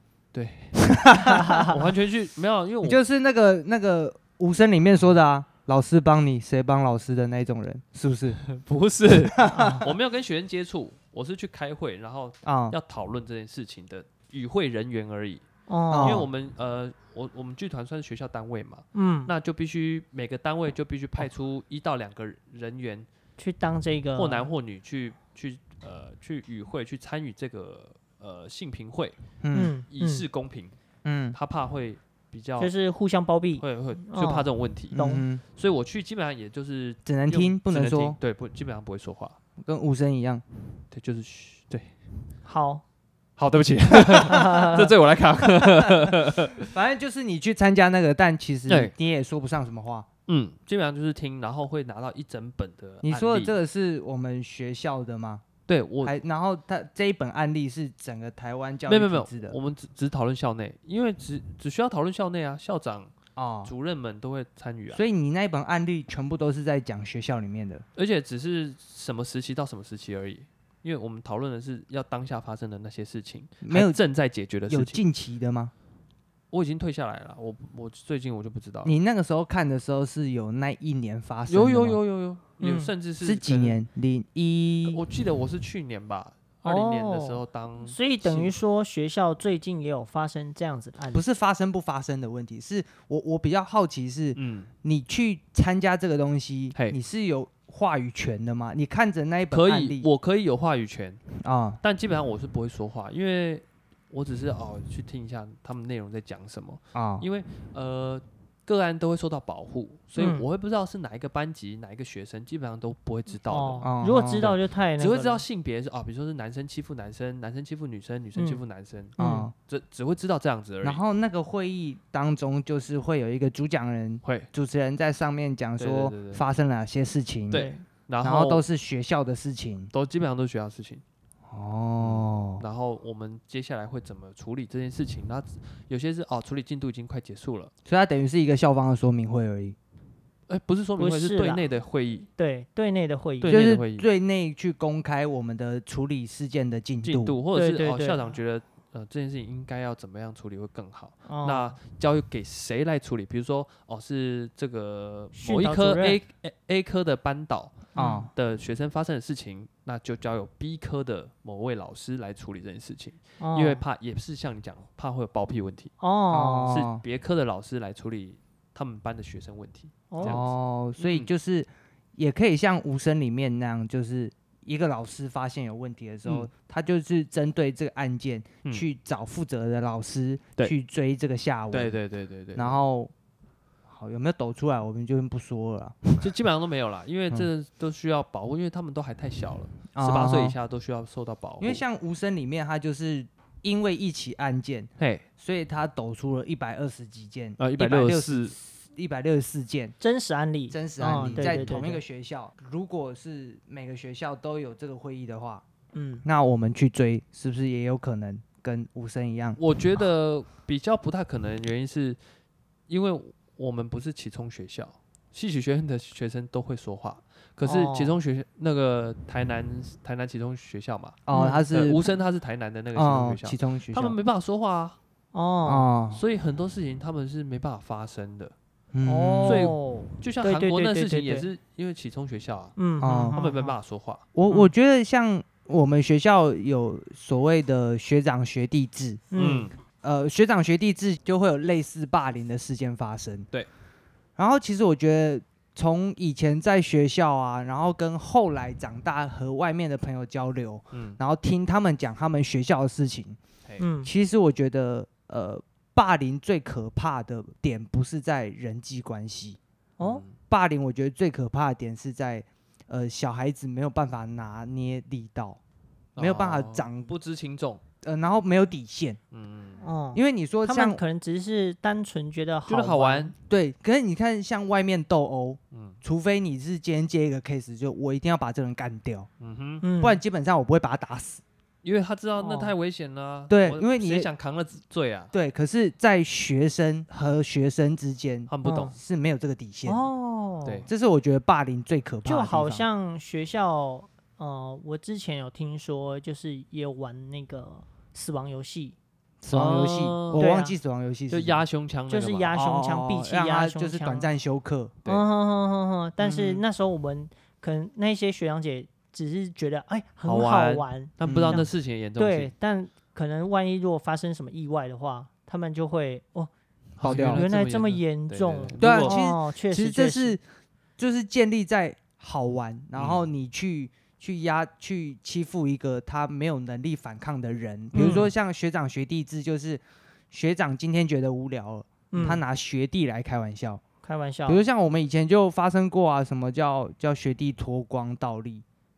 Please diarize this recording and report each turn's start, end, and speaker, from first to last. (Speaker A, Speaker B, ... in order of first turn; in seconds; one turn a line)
Speaker A: 0.3-0.9
Speaker B: 0.8-1.6
Speaker A: 1.6-3.0
Speaker B: 2.8-8.4
Speaker A: 8.4-15.4
Speaker B: 9.3-9.8
Speaker C: 9.5-9.8
Speaker B: 12.4-12.8
Speaker C: 15.7-16.2
Speaker B: 15.9-16.3
Speaker A: 16.0-23.1
Speaker C: 18.9-19.3
Speaker C: 23.4-24.5
Speaker A: 24.2-29.2
Speaker B: 29.4-29.8
Speaker C: 29.5-30.3
Speaker A: 29.9-30.8
Speaker B: 31.1-31.4
Speaker A: 31.3-32.7
Speaker C: 32.6-35.3
Speaker A: 33.6-35.0
Speaker B: 34.9-35.4
Speaker A: 35.5-39.4
Speaker B: 37.0-38.2
Speaker B: 39.6-40.4
Speaker A: 40.9-42.0
Speaker C: 42.5-42.8
Speaker A: 43.4-46.7
Speaker C: 44.2-44.9
Speaker B: 46.6-50.1
Speaker A: 48.7-48.9
Speaker A: 50.3-53.5
Speaker B: 53.0-55.4
Speaker A: 55.7-56.2
Speaker B: 56.0-59.6
Speaker A: 58.9-63.1
Speaker B: 63.4-63.7
Speaker A: 63.6-65.0
Speaker B: 64.9-67.8
Speaker A: 68.0-75.0
Speaker B: 73.6-74.0
Speaker B: 74.7-75.7
Speaker A: 76.5-78.9
Speaker B: 78.8-82.0
Speaker A: 81.5-83.8
Speaker C: 82.6-82.9
Speaker B: 83.2-85.0
Speaker A: 84.8-88.6
Speaker C: 86.6-91.2
Speaker B: 91.1-100.1
Speaker A: 94.4-94.7
Speaker A: 99.5-101.2
Speaker B: 101.4-101.8
Speaker A: 101.8-121.0
Speaker B: 106.9-107.3
Speaker C: 110.2-110.5
Speaker C: 113.5-115.4
Speaker B: 113.8-114.5
Speaker C: 118.3-118.6
Speaker C: 119.2-119.5
Speaker B: 119.2-119.5
Speaker B: 120.8-127.7
Speaker A: 124.2-124.5
Speaker A: 125.8-126.4
Speaker A: 127.5-128.6
Speaker C: 127.5-127.9
Speaker B: 128.2-129.9
Speaker A: 129.9-131.0
Speaker B: 131.5-132.6
Speaker A: 132.0-137.7
Speaker B: 137.9-139.8
Speaker A: 140.5-142.3
Speaker C: 141.0-141.7
Speaker C: 142.4-143.7
Speaker A: 143.4-144.1
Speaker B: 143.5-147.4
Speaker A: 147.0-165.9
Speaker C: 147.5-148.3
Speaker C: 151.3-151.8
Speaker C: 155.3-156.2
Speaker C: 157.9-158.3
Speaker B: 158.0-158.3
Speaker C: 163.4-163.8
Speaker C: 166.0-166.8
Speaker B: 166.3-167.0
Speaker A: 166.7-171.3
Speaker C: 170.1-170.4
Speaker B: 170.2-182.0
Speaker A: 176.2-176.5
Speaker A: 181.7-182.8
Speaker B: 182.6-183.1
Speaker B: 183.9-186.3
Speaker A: 186.2-191.8
Speaker B: 189.9-190.6
Speaker B: 191.6-199.9
Speaker A: 195.0-195.3
Speaker A: 197.6-198.6
Speaker C: 200.0-202.0
Speaker B: 200.7-205.6
Speaker A: 201.2-201.8
Speaker C: 205.9-206.2
Speaker B: 206.2-209.6
Speaker A: 209.6-212.2
Speaker A: 212.9-225.0
Speaker C: 217.6-218.2
Speaker B: 221.3-222.0
Speaker C: 221.3-221.7
Speaker B: 222.9-224.2
Speaker C: 225.3-225.9
Speaker B: 225.7-226.2
Speaker A: 226.1-228.5
Speaker B: 228.9-229.8
Speaker C: 229.1-231.5
Speaker A: 229.4-232.8
Speaker C: 232.8-233.8
Speaker B: 233.0-233.4
Speaker A: 233.3-234.2
Speaker B: 234.3-239.3
Speaker C: 239.3-239.7
Speaker A: 239.3-239.7
Speaker B: 240.0-243.5
Speaker B: 244.4-253.4
Speaker A: 250.9-251.2
Speaker C: 253.8-254.1
Speaker B: 254.0-259.6
Speaker A: 260.0-260.4
Speaker B: 260.5-265.6
Speaker A: 266.2-267.8
Speaker B: 266.2-267.1
Speaker B: 268.0-269.2
Speaker A: 269.3-269.9
Speaker C: 269.8-273.3
Speaker B: 270.1-271.0
Speaker A: 272.7-273.3
Speaker B: 273.5-279.3
Speaker A: 275.7-276.0
Speaker A: 279.4-279.9
Speaker C: 279.8-280.2
Speaker B: 280.0-281.4
Speaker A: 281.8-285.3
Speaker C: 282.4-282.7
Speaker B: 283.5-284.3
Speaker B: 285.3-290.1
Speaker A: 288.5-289.0
Speaker C: 288.6-288.9
Speaker C: 289.9-290.9
Speaker A: 290.6-290.9
Speaker B: 290.9-292.9
Speaker C: 292.2-299.0
Speaker B: 299.4-301.6
Speaker A: 299.5-300.5
Speaker C: 300.4-300.8
Speaker A: 301.3-302.6
Speaker C: 302.1-304.3
Speaker B: 302.6-304.9
Speaker C: 305.1-316.5
Speaker B: 306.2-306.6
Speaker A: 310.2-312.5
Speaker B: 311.3-311.7
Speaker B: 317.0-317.4
Speaker A: 317.0-319.2
Speaker C: 317.2-320.4
Speaker B: 318.8-320.4
Speaker B: 321.0-333.8
Speaker A: 322.9-323.3
Speaker A: 327.9-328.3
Speaker C: 327.9-328.3
Speaker C: 332.1-332.4
Speaker C: 334.0-334.6
Speaker B: 334.5-338.6